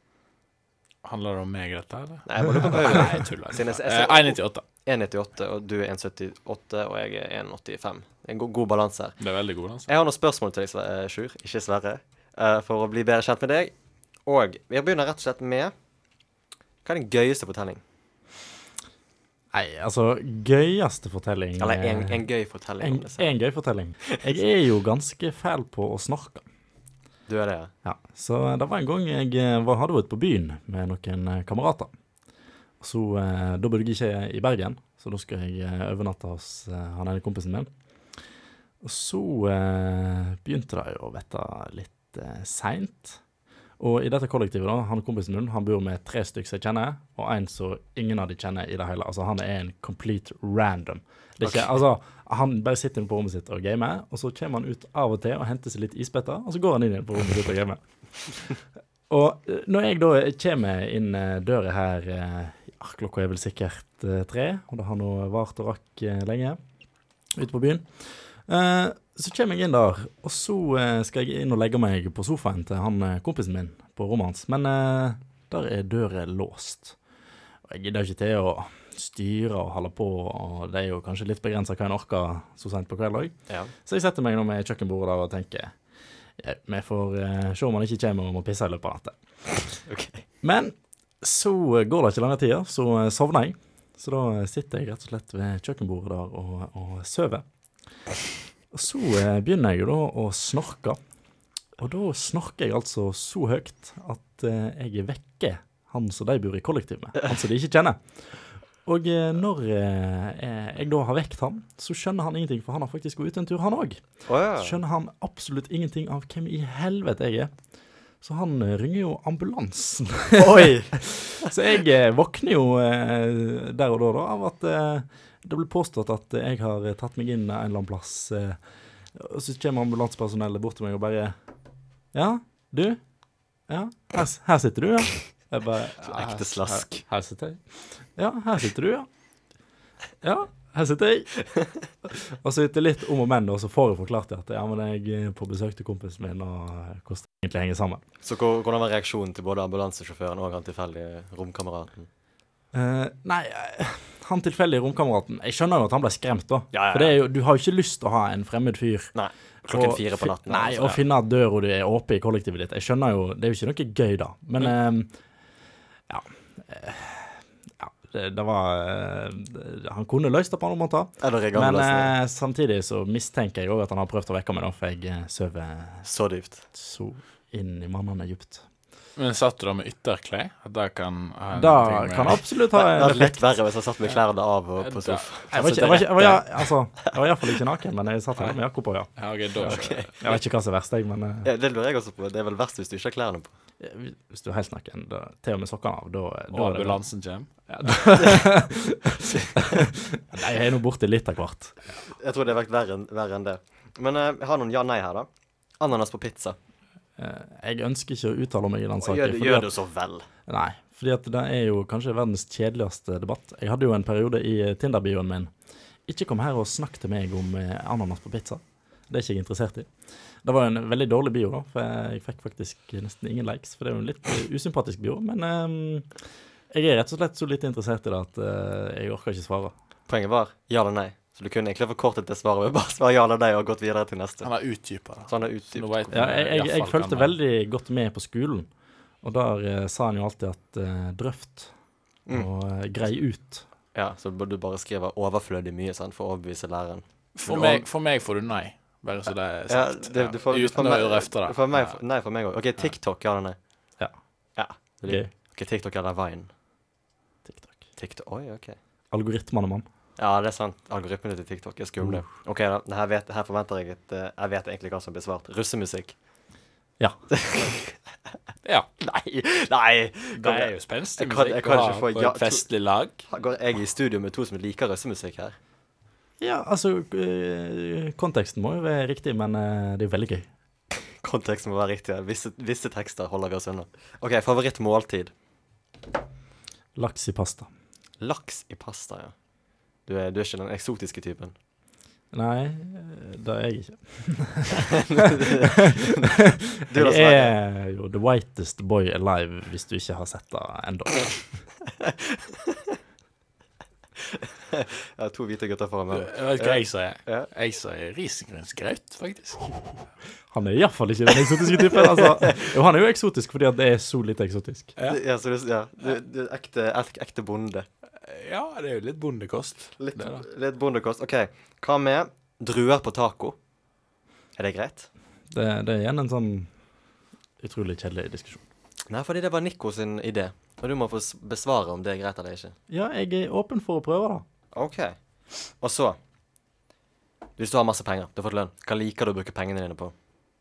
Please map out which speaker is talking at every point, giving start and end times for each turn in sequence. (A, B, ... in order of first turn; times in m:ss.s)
0:01.0-0:04.6 A
0:02.2-0:09.1 B
0:09.2-0:09.9 A
0:09.8-0:13.7 B
0:14.2-0:15.7 B
0:16.8-0:17.8 B
0:19.5-0:22.2 C
0:21.6-0:23.3 B
0:22.8-0:26.4 C
0:27.3-0:27.7 B
0:27.8-0:31.9 C
0:32.8-0:37.7 C
0:38.8-0:43.2 C
0:43.8-0:58.5 C
0:59.1-1:06.6 C
1:07.3-1:07.9 C
1:08.5-1:17.0 C
1:17.6-1:23.3 C
1:23.8-1:25.7 C
1:26.4-1:29.1 C
1:29.9-1:30.2 B
1:30.4-1:37.4 C
1:38.7-1:41.0 C
1:41.8-1:54.0 C
1:54.2-1:54.8 B
1:54.6-1:57.5 C
1:58.2-2:08.6 C
2:00.4-2:01.5 B
2:09.1-2:11.3 C
2:12.1-2:13.0 C
2:13.7-2:19.1 C
2:16.0-2:17.0 B
2:20.2-2:21.3 C
2:22.0-2:28.0 C
2:28.2-2:32.1 B
2:32.7-2:39.1 C
2:36.7-2:37.2 B
2:39.1-2:41.0 B
2:39.7-2:45.1 C
2:46.1-2:56.0 C
2:51.2-2:52.1 B
2:56.0-2:56.6 B
2:56.7-2:58.6 C
2:59.2-3:02.4 A
3:01.5-3:03.4 C
3:02.7-3:07.1 B
3:04.8-3:05.4 A
3:05.5-3:11.5 C
3:09.2-3:10.4 A
3:09.6-3:10.1 B
3:11.4-3:13.5 B
3:13.8-3:17.0 C
3:16.5-3:18.2 A
3:17.8-3:21.7 C
3:19.3-3:19.8 B
3:22.1-3:25.3 B
3:25.8-3:26.6 B
3:27.2-3:29.7 C
3:29.0-3:30.2 B
3:30.5-3:35.5 C
3:36.1-3:39.9 C
3:40.4-3:46.1 C
3:46.7-3:49.7 C
3:50.1-3:54.5 B
3:54.4-3:57.3 A
3:55.3-3:56.1 B
3:56.1-3:58.7 C
3:59.2-4:01.7 C
4:02.3-4:03.6 C
4:03.9-4:07.8 B
4:07.4-4:12.0 A
4:09.7-4:13.6 B
4:14.6-4:16.5 B
4:17.5-4:17.8 C
4:18.0-4:18.8 B
4:19.1-4:19.8 C
4:20.2-4:26.1 B
4:27.3-4:28.0 B
4:29.0-4:32.6 B
4:30.4-4:33.2 A
4:33.3-4:35.6 B
4:36.4-4:40.5 C
4:41.2-4:45.3 B
4:47.0-4:47.7 C
4:48.2-4:49.3 B
4:50.1-4:51.5 B
4:52.3-5:01.4 C
4:54.7-4:57.5 B
5:02.0-5:02.8 B
5:04.7-5:07.5 B
5:06.1-5:09.7 A
5:10.5-5:14.9 C
5:11.9-5:12.7 B
5:15.0-5:17.9 B
5:18.2-5:20.4 A
5:20.0-5:23.6 B
5:24.6-5:25.1 B
5:25.5-5:26.7 C
5:27.6-5:28.6 C
5:29.1-5:32.7 B
5:32.9-5:34.4 C
5:34.7-5:35.2 B
5:35.8-5:36.2 B
5:37.6-5:40.1 B